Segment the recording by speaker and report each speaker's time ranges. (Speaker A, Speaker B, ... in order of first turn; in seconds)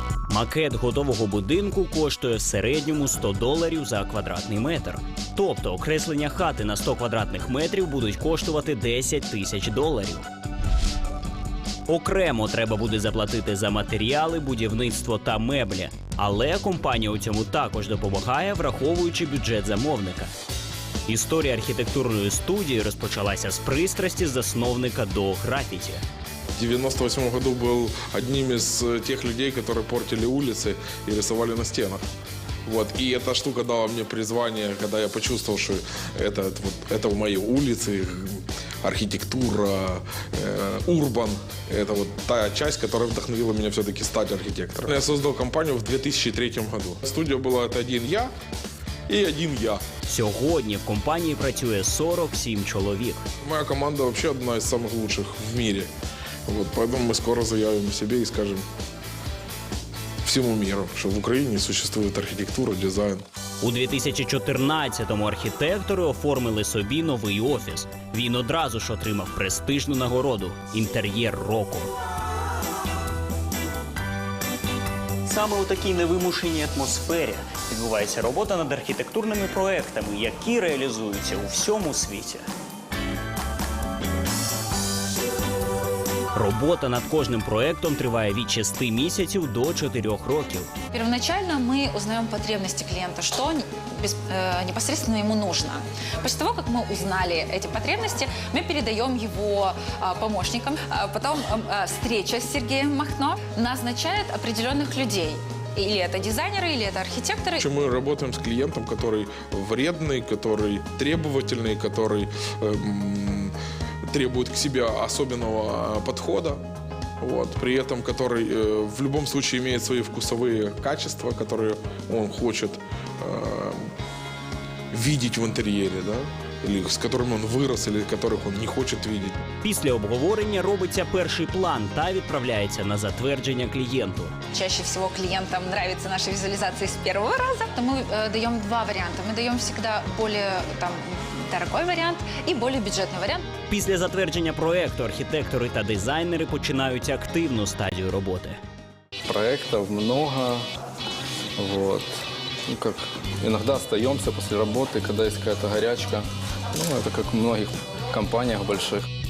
Speaker A: 0.3-10.2, 11.9-20.3, 21.1-26.0, 50.0-53.2, 63.6-71.9, 75.2-82.5, 86.3-90.7, 129.6-134.3, 143.7-148.6
Speaker B: 26.6-32.0, 32.6-48.3, 49.1-49.8, 53.4-55.9, 56.5-58.6, 60.2-63.2, 107.6-113.5, 114.1-116.6, 117.2-123.9, 124.9-129.4
Speaker C: 90.9-107.6, 134.5-143.5
Speaker D: 149.2-150.7, 151.6-159.0